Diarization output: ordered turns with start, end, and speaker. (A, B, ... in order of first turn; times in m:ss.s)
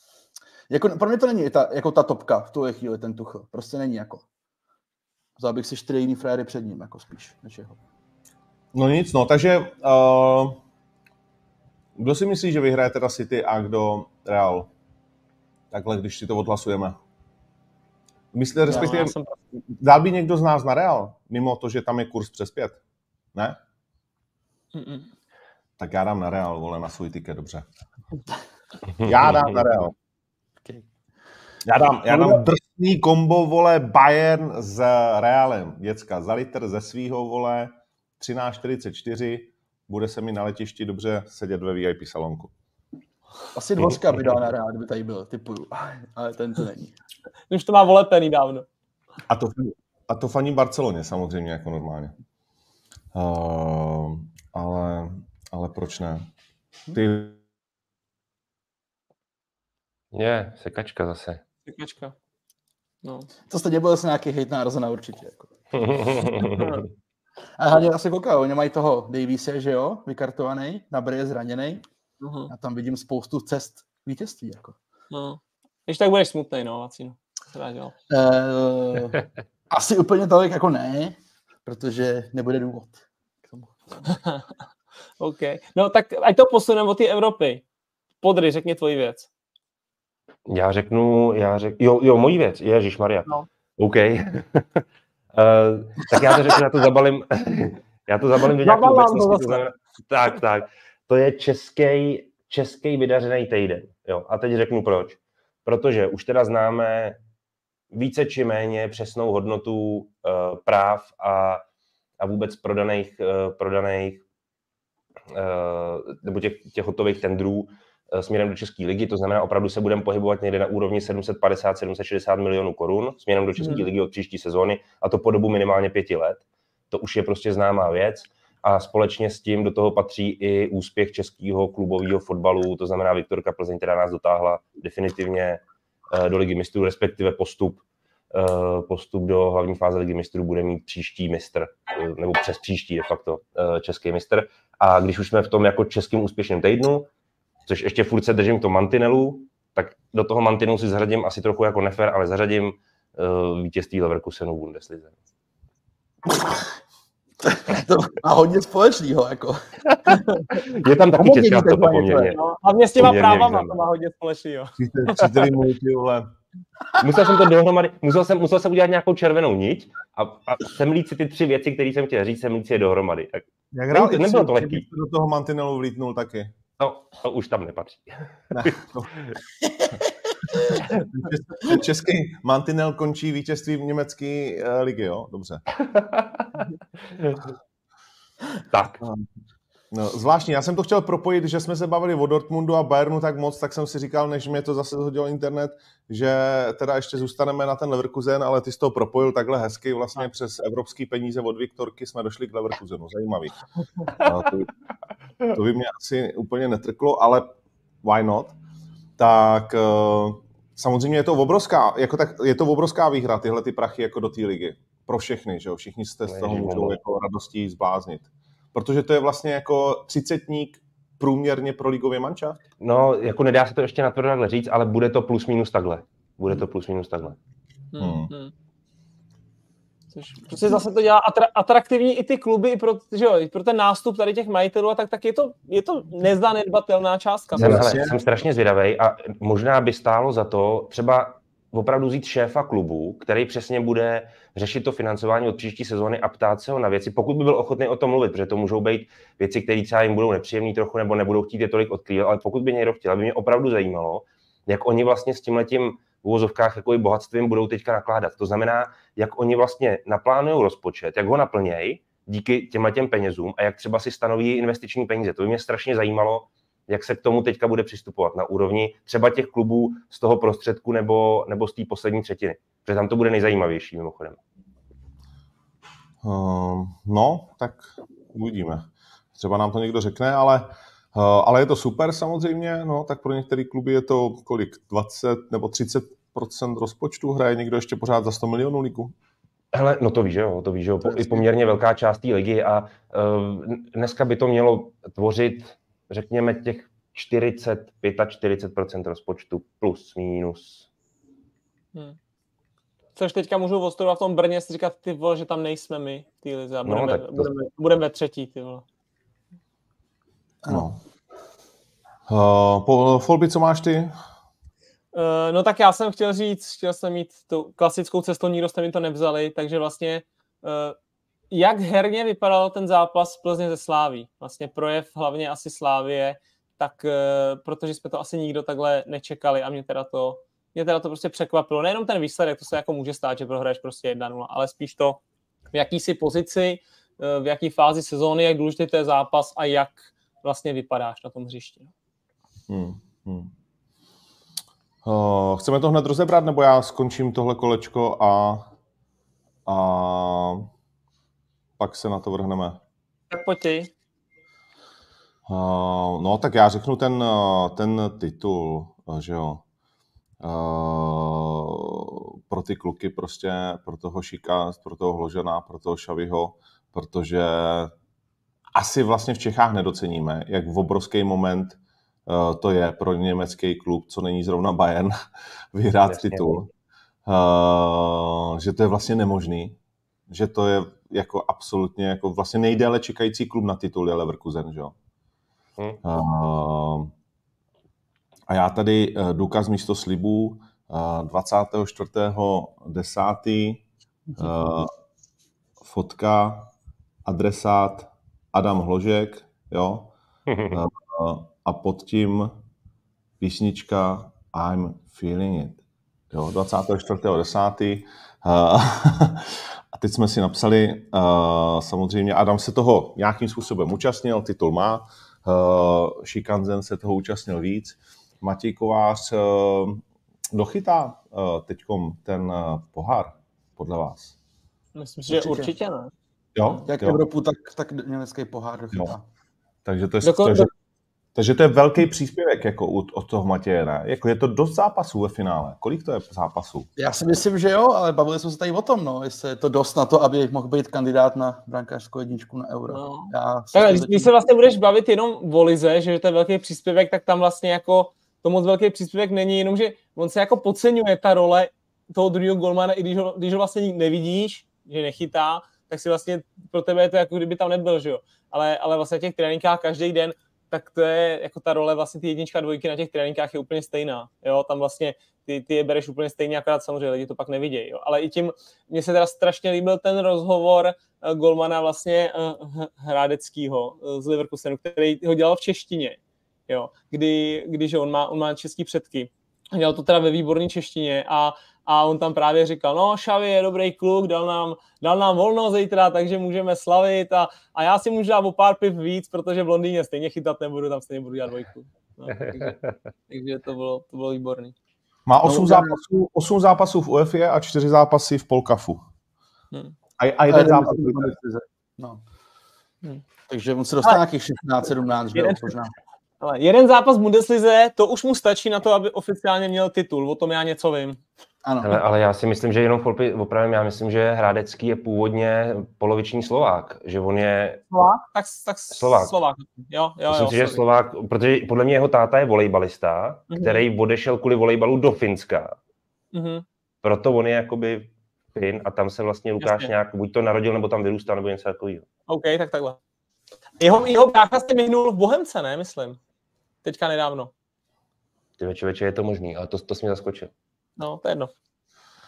0:00.7-0:04.2 A
0:05.4-0:07.8 A
0:08.7-0:10.6 B
0:12.0-0:14.7 B
0:15.7-0:17.0 B
0:18.3-0:19.2 B
0:18.7-0:19.4 C
0:19.7-0:22.8 B
0:24.7-0:25.1 C
0:25.8-0:27.6 B
0:29.0-0:29.6 D
0:29.0-0:30.0 B
0:31.6-0:42.5 B
0:32.1-0:32.4 A
0:43.5-0:46.9 A
0:47.5-0:48.7 C
0:49.3-0:52.1 B
0:53.1-0:56.3 B
0:56.9-0:57.4 B
1:00.1-1:01.4 D
1:01.7-1:02.2 C
1:03.0-1:03.3 C
1:03.5-1:05.5 A
1:05.7-1:06.8 D
1:06.4-1:06.8 C
1:07.6-1:11.8 A
1:12.2-1:12.5 C
1:12.5-1:14.8 A
1:15.1-1:18.0 C
1:18.1-1:19.2 A
1:19.7-1:24.0 A
1:25.2-1:27.6 C
1:28.2-1:29.3 C
1:30.5-1:47.2 D
1:38.6-1:39.6 C
1:47.9-1:51.6 D
1:52.2-1:54.2 D
1:55.3-2:27.1 D
2:03.6-2:03.9 C
2:27.7-2:35.1 D
2:37.4-2:40.2 A
2:40.5-2:42.4 D
2:41.2-2:42.4 A
2:42.3-2:45.5 C
2:43.0-2:43.8 D
2:44.8-2:46.3 B
2:47.0-2:54.8 D
2:53.7-2:56.6 B
2:56.8-2:59.4 D
2:58.5-2:59.2 B
3:00.9-3:05.6 B
3:05.8-3:07.5 D
3:08.7-3:09.0 D
3:09.0-3:09.3 B
3:09.9-3:23.6 B
3:24.1-3:24.7 B
3:25.5-3:28.6 B
3:29.2-3:42.6 B
3:36.3-3:37.0 D
3:42.8-3:47.4 D
3:47.9-3:48.5 C
3:48.0-3:48.3 B
3:50.1-3:58.0 C
3:57.6-3:58.2 B
3:57.6-4:34.4 D
4:36.2-4:49.1 B
4:49.7-5:00.9 D
4:51.2-4:51.4 A
5:03.2-5:08.8 C
5:06.8-5:07.5 D
5:10.6-5:10.9 A
5:10.7-5:11.0 B
5:12.3-5:14.1 B
5:15.1-5:21.0 C
5:21.5-5:35.2 C
5:35.7-5:41.9 C
5:42.7-5:43.5 B
5:45.0-5:48.7 B
5:49.7-5:50.7 B
5:51.8-5:52.8 B
5:53.3-5:53.9 C
5:55.5-5:59.6 B
6:00.4-6:07.9 B
6:08.8-6:15.2 B
6:15.7-6:16.7 B
6:16.1-6:16.6 D
6:17.3-6:19.8 B
6:20.3-6:25.0 B
6:26.0-6:27.1 B
6:28.5-6:33.8 B
6:34.4-6:34.9 B
6:35.8-6:36.7 B
6:37.2-6:40.1 B
6:40.5-6:40.8 D
6:40.7-6:42.6 B
6:43.4-7:04.3 B
7:05.0-7:06.1 C
7:05.3-7:05.7 A
7:06.6-7:07.2 B
7:06.9-7:09.2 A
7:09.8-7:10.7 B
7:10.2-7:10.7 C
7:11.4-7:16.9 B
7:17.0-7:24.3 A
7:22.9-8:12.8 C
8:12.4-8:12.9 D
8:13.3-8:14.8 C
8:15.3-8:19.0 B
8:15.4-8:16.0 A
8:20.2-8:21.4 B
8:20.5-8:22.2 A
8:23.5-8:25.9 A
8:25.4-8:25.7 C
8:26.4-8:31.2 C
8:31.6-8:32.0 A
8:31.8-8:37.8 D
8:37.9-8:40.8 C
8:38.9-8:39.3 D
8:40.3-8:45.8 D
8:43.5-8:43.8 C
8:46.3-8:46.6 C
8:47.0-8:52.1 D
8:49.6-8:49.9 C
8:52.3-8:53.0 C
8:53.8-8:56.2 C
8:56.8-8:57.5 C
8:58.6-9:00.5 D
9:01.0-9:01.5 C